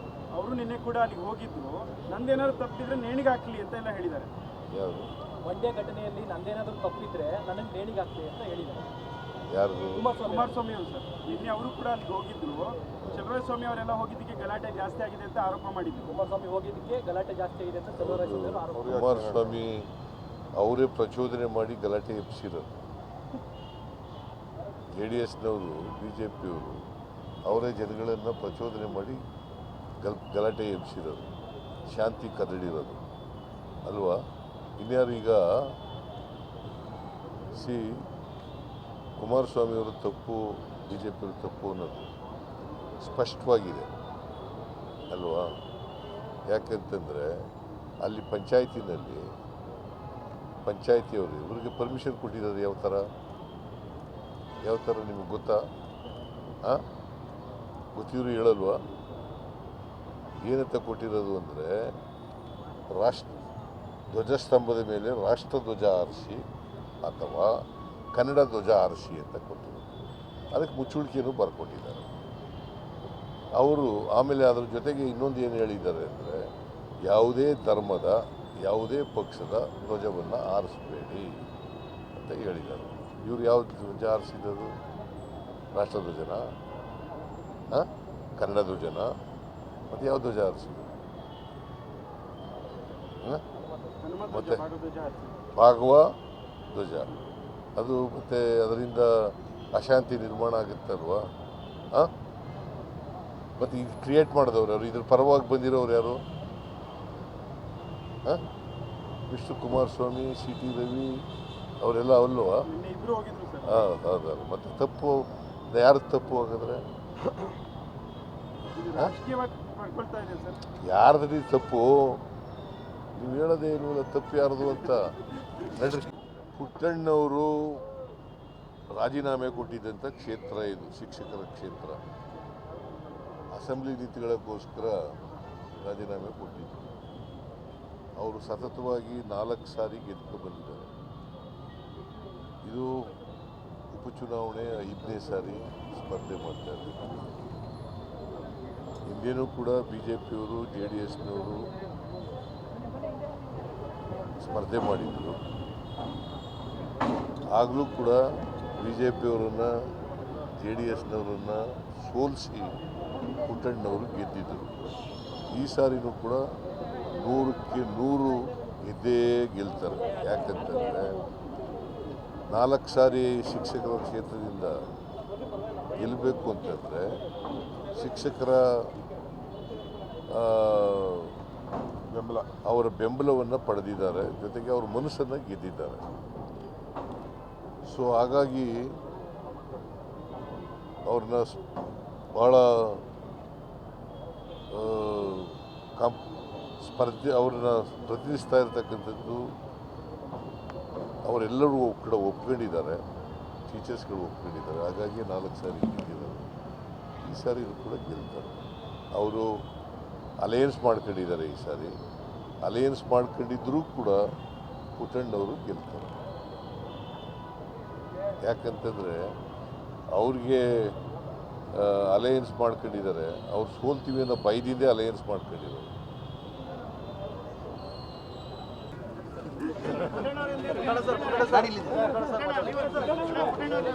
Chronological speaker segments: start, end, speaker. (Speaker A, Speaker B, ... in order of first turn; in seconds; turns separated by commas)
Speaker A: 0.3-4.3, Speaker B: 4.7-5.1, Speaker C: 5.4-8.9, Speaker B: 9.5-10.1, Speaker C: 9.9-10.6, Speaker A: 10.2-16.2, Speaker C: 16.1-18.9, Speaker B: 18.0-19.9, Speaker B: 20.6-22.8, Speaker B: 24.9-26.9, Speaker B: 27.4-29.2, Speaker B: 30.0-31.3, Speaker B: 31.9-33.0, Speaker B: 33.8-34.2, Speaker B: 34.8-35.8, Speaker B: 37.5-38.0, Speaker B: 39.2-42.1, Speaker B: 43.0-43.9, Speaker B: 45.1-45.6, Speaker B: 46.5-47.5, Speaker B: 48.0-49.3, Speaker B: 50.6-53.1, Speaker B: 54.6-55.7, Speaker B: 57.9-58.8, Speaker B: 60.4-62.0, Speaker B: 62.9-63.4, Speaker B: 64.1-66.4, Speaker B: 67.0-67.6, Speaker B: 68.1-69.9, Speaker B: 70.5-72.1, Speaker B: 73.5-76.5, Speaker B: 77.0-81.5, Speaker B: 82.1-84.8, Speaker B: 85.7-86.5, Speaker B: 87.7-89.2, Speaker B: 89.9-90.9, Speaker A: 94.0-95.4, Speaker B: 94.3-94.6, Speaker B: 95.5-96.2, Speaker B: 96.7-97.1, Speaker B: 97.8-101.3, Speaker B: 103.6-106.2, Speaker B: 109.3-111.2, Speaker B: 111.8-112.7, Speaker A: 112.7-113.8, Speaker B: 113.7-116.9, Speaker A: 118.6-120.6, Speaker B: 120.8-122.2, Speaker B: 123.2-125.1, Speaker B: 125.7-127.8, Speaker B: 128.9-132.0, Speaker B: 133.5-135.2, Speaker B: 135.7-136.9, Speaker B: 138.2-140.9, Speaker B: 142.7-143.1, Speaker B: 143.9-147.0, Speaker B: 149.1-151.7, Speaker B: 154.4-155.4, Speaker B: 157.5-159.7, Speaker B: 160.6-162.8, Speaker B: 163.4-164.8, Speaker B: 165.5-166.4, Speaker B: 167.2-171.2, Speaker B: 172.5-174.8, Speaker B: 176.0-177.2, Speaker B: 177.9-178.7, Speaker B: 180.3-181.3, Speaker B: 182.7-186.0, Speaker B: 187.8-188.9, Speaker B: 191.1-191.6, Speaker B: 192.3-193.0, Speaker B: 194.7-196.2, Speaker B: 196.8-199.5, Speaker B: 201.2-203.0, Speaker B: 203.7-206.5, Speaker B: 207.2-208.5, Speaker B: 209.2-209.6, Speaker B: 210.4-212.0, Speaker B: 212.6-214.2, Speaker B: 215.0-216.2, Speaker B: 218.4-219.4, Speaker B: 220.1-220.9, Speaker B: 221.7-225.9